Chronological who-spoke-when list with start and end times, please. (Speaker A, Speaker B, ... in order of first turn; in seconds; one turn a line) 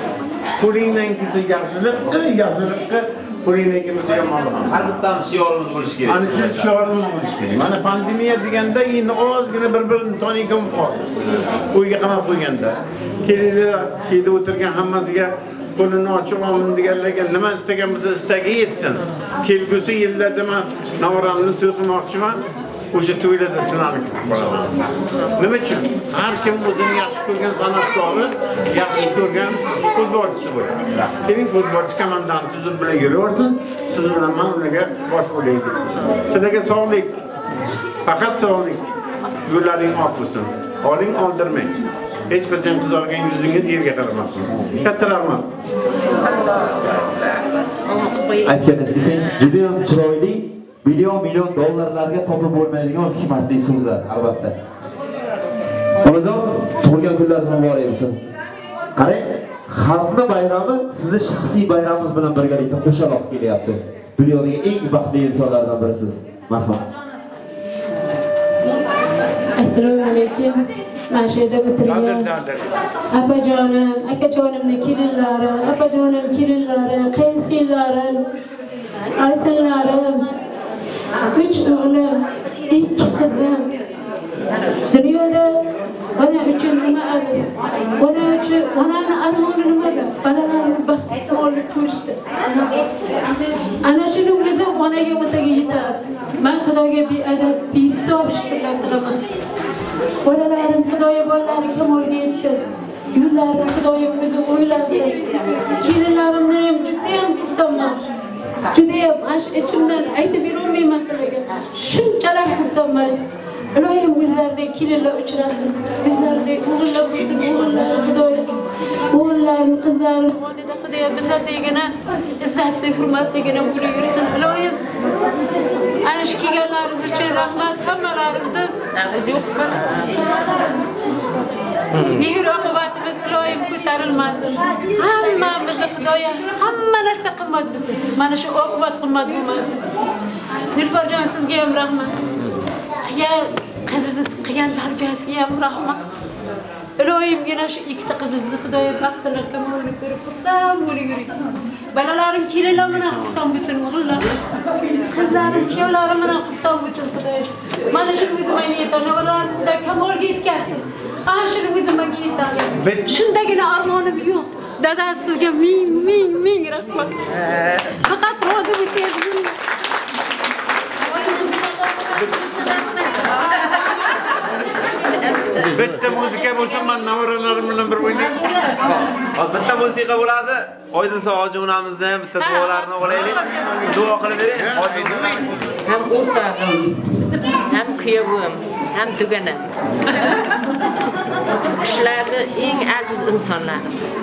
Speaker A: 0.6-4.7
Speaker B: 4.7-6.7
Speaker A: 6.1-11.1
Speaker A: 11.7-37.2
Speaker A: 38.0-38.9
Speaker A: 39.5-45.5
Speaker B: 48.4-54.5
Speaker B: 56.0-58.2
Speaker B: 59.0-66.8
Speaker C: 69.6-72.3
Speaker A: 71.8-72.8
Speaker C: 73.1-78.2
Speaker C: 79.2-80.3
Speaker C: 81.3-83.7
Speaker C: 84.9-85.6
Speaker C: 86.2-92.2
Speaker C: 93.8-99.2
Speaker C: 100.2-108.0
Speaker C: 108.7-113.2
Speaker C: 113.7-118.5
Speaker C: 119.1-124.8
Speaker C: 126.0-129.8
Speaker C: 131.9-139.8
Speaker C: 140.7-142.2
Speaker C: 143.0-146.0
Speaker C: 147.0-151.4
Speaker C: 151.9-154.3
Speaker C: 154.9-167.3
Speaker A: 162.8-163.1
Speaker C: 167.8-169.5
Speaker C: 171.1-172.9
Speaker A: 175.5-178.7
Speaker B: 178.8-185.5
Speaker A: 184.7-185.6
Speaker D: 185.8-190.1
Speaker D: 191.5-194.0